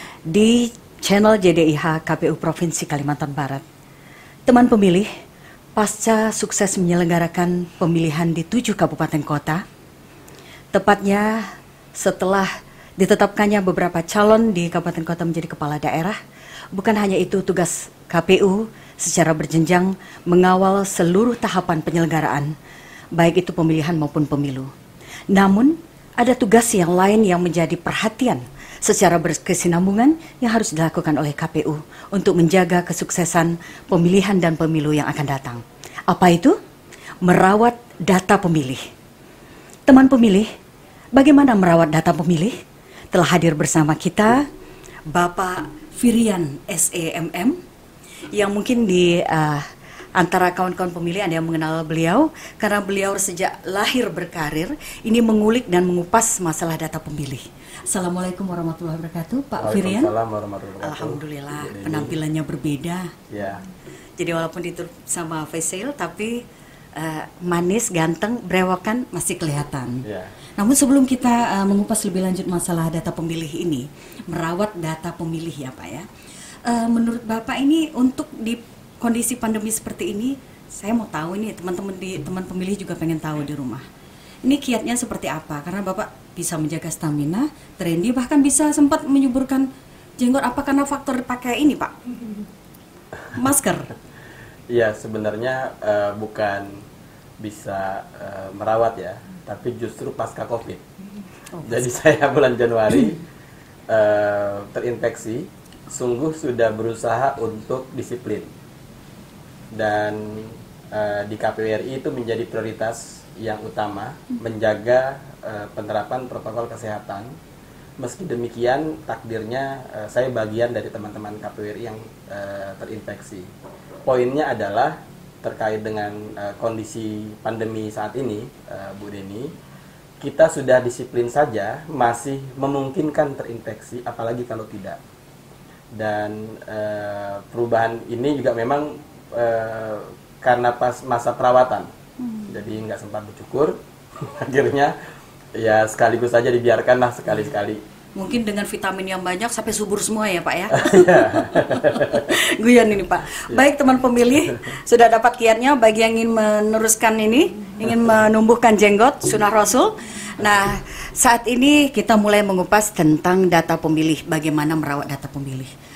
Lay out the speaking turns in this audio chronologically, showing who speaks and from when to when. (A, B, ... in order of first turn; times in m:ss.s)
0:00.3-0:03.6 A
0:04.5-0:05.1 A
0:05.8-0:09.6 A
0:10.7-0:16.2 A
0:16.7-0:22.5 A
0:23.2-0:24.7 A
0:25.3-0:36.6 A
0:37.2-0:38.8 A
0:39.9-0:40.5 A
0:41.1-0:42.6 A
0:43.1-0:44.5 A
0:45.1-0:47.6 A
0:48.3-1:00.1 A
0:59.6-1:02.2 B
1:00.8-1:03.1 A
1:03.3-1:03.6 B
1:04.2-1:06.4 A
1:07.0-1:10.0 A
1:10.0-1:10.3 B
1:10.6-1:16.1 A
1:16.6-1:23.8 A
1:24.4-1:32.0 A
1:33.3-1:33.9 A
1:34.7-1:36.8 B
1:37.4-1:40.8 B
1:41.5-1:41.8 A
1:41.6-1:43.2 B
1:43.9-1:48.5 B
1:49.7-1:57.3 B
1:58.0-2:03.5 B
2:04.0-2:09.5 B
2:10.2-2:15.0 B
2:15.9-2:21.9 B
2:22.2-2:22.5 A
2:22.5-2:24.9 B
2:25.5-2:27.8 B
2:28.1-2:45.7 A
2:30.7-2:32.3 B